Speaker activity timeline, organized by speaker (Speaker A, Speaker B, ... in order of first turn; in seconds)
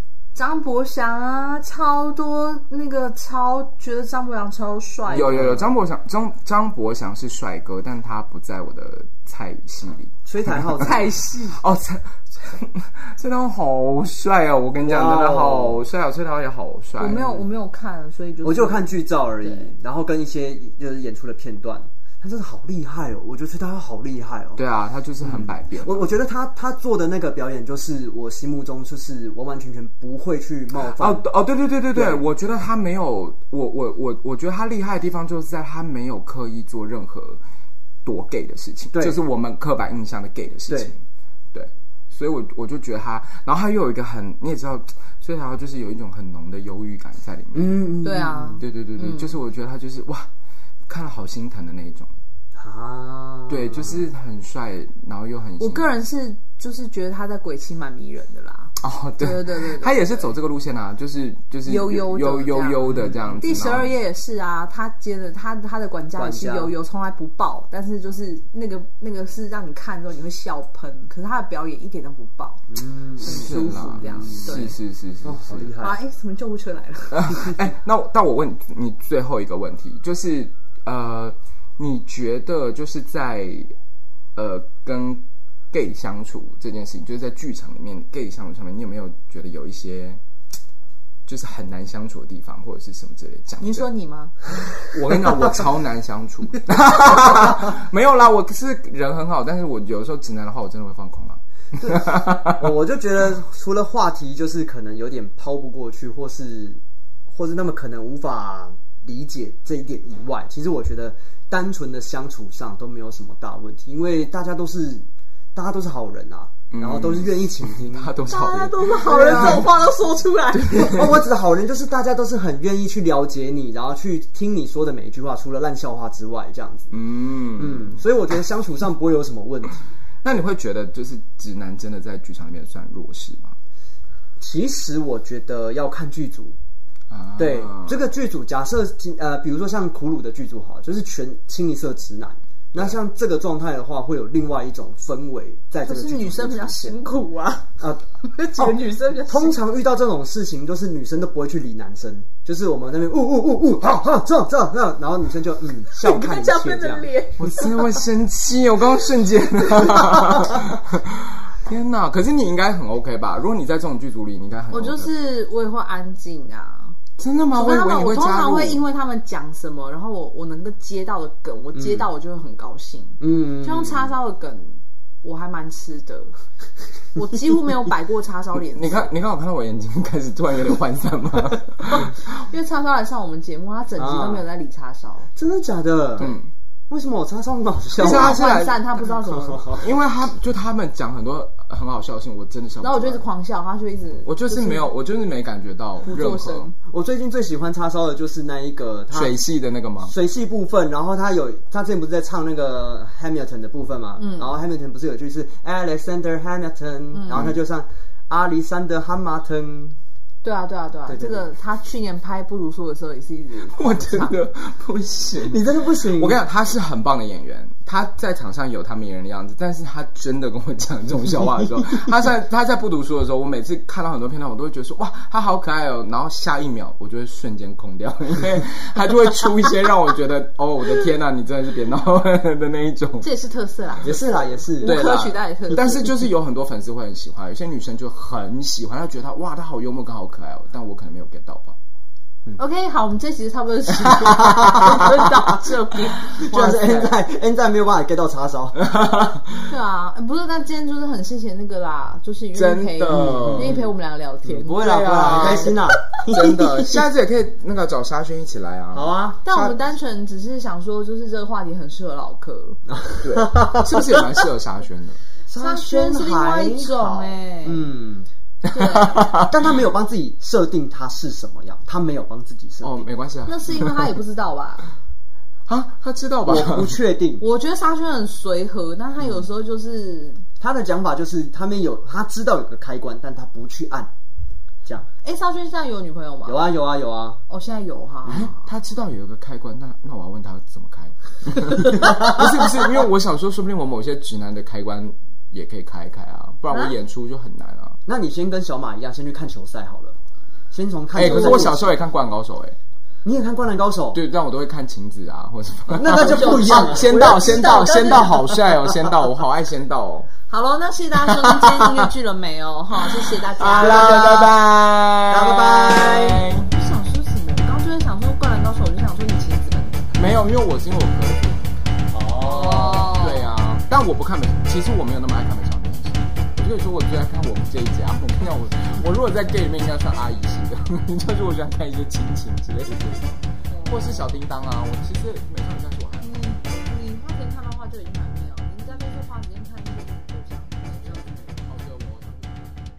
Speaker A: 0.3-5.5, 10.8-11.6, 16.9-19.7, 48.0-49.4, 55.6-60.3, 61.6-62.9, 63.4-72.6, 73.2-74.8, 75.8-77.5, 93.6-94.5, 118.3-121.0, 145.8-147.7, 148.2-149.6, 155.9-157.8, 159.8-160.4, 164.7-167.0, 167.5-176.3, 177.1-179.1, 181.9-185.3, 188.0-189.8, 192.8-194.9, 196.0-196.7, 204.2-204.5, 207.1-207.5, 210.4-214.3, 233.2-236.1, 242.6-247.1, 249.7-255.7, 259.4-262.8, 265.6-267.9, 268.7-269.4, 273.4-274.9, 277.4-280.4, 285.2-286.7, 287.5-288.6, 296.7-296.9, 301.2-301.6, 306.0-308.5, 310.5-314.5, 316.7-320.0, 322.4-323.5, 333.7-334.2, 336.2-341.4
Speaker B: 5.1-10.9, 11.5-17.3, 24.6-26.1, 31.0-37.4, 38.0-41.0, 41.5-47.8, 48.6-50.3, 50.9-52.1, 53.5-55.9, 58.8-63.9, 73.2-75.7, 77.1-83.7, 84.3-90.2, 91.3-93.9, 94.8-102.6, 116.7-119.8, 120.5-121.2, 126.9-128.0, 130.2-133.5, 137.1-138.0, 157.4-165.1, 167.2-168.8, 178.6-182.3, 186.2-186.5, 188.0-188.8, 189.8-193.2, 194.2-196.7, 199.1-200.1, 213.7-233.3, 234.8-241.8, 248.8-249.7, 252.6-253.8, 254.8-259.1, 263.2-265.2, 268.7-269.5, 272.8-274.1, 275.7-277.0, 288.3-298.0, 301.1-302.8, 304.1-310.3, 311.3-312.0, 313.2-316.7, 320.1-321.8, 323.1-336.4, 341.0-342.7
Speaker C: 5.1-5.7, 10.2-10.9, 14.8-15.8, 18.4-24.6, 25.2-31.2, 31.9-32.2, 38.9-39.2, 47.5-48.6, 52.5-54.0, 62.9-63.6, 66.2-66.7, 72.7-74.6, 75.2-76.0, 101.7-118.2, 119.0-119.7, 120.7-126.9, 127.5-129.9, 134.4-136.6, 137.4-147.0, 147.8-157.1, 171.7-172.1, 173.2-174.1, 184.0-184.4, 185.3-186.3, 186.9-188.4, 189.3-189.9, 196.9-199.4, 200.0-210.0, 211.1-211.4, 215.4-216.4, 234.0-235.1, 244.3-245.6, 246.2-248.8, 253.1-253.9, 254.4-257.1, 258.9-259.7, 262.9-263.9, 265.5-268.3, 269.4-273.1, 276.4-277.4, 280.6-284.1, 286.4-287.4, 291.9-292.7, 298.1-300.1, 300.7-301.9, 303.2-304.2, 305.9-307.7, 313.7-314.6, 315.3-316.4, 322.1-323.1